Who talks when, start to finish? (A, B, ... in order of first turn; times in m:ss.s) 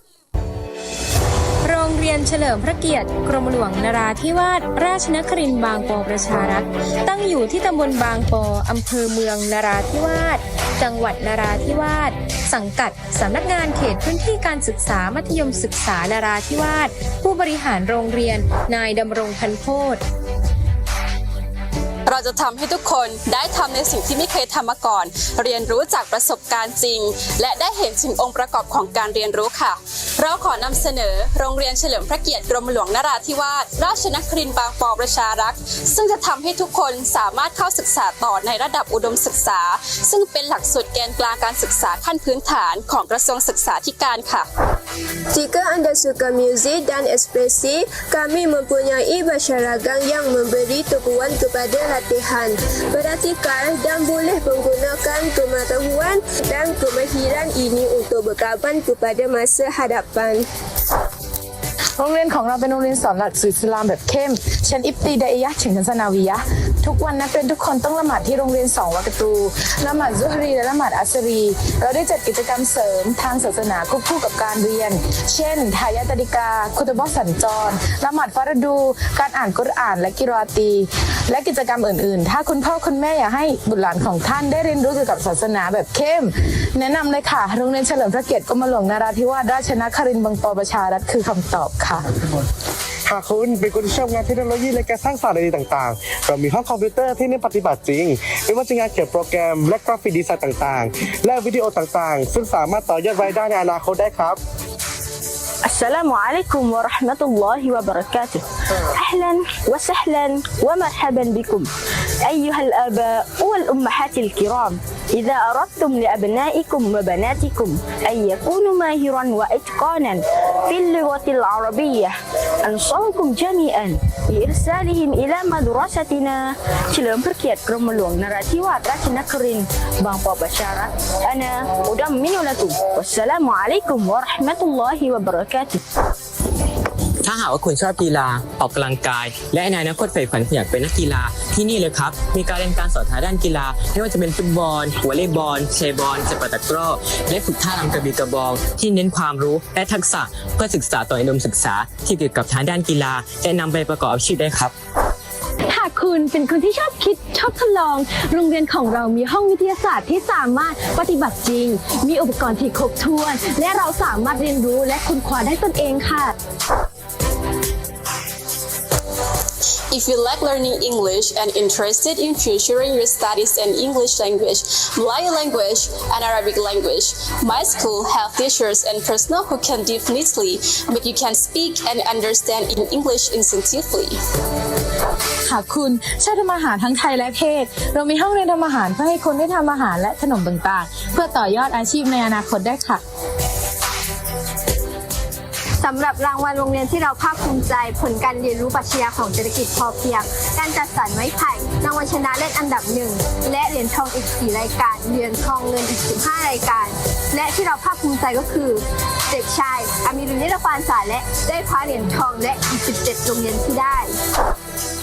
0:01.6-0:20.0 A
0:22.1-0:44.4 B
0:45.3-1:00.4 C
1:02.0-1:32.0 D
1:33.1-1:44.4 E
1:45.7-1:48.4 F
1:49.0-1:51.7 F
1:52.3-2:15.8 F
2:17.2-2:34.7 G
2:35.7-2:46.3 H
2:49.9-3:04.2 B
3:05.5-3:13.0 D
3:15.8-3:34.1 I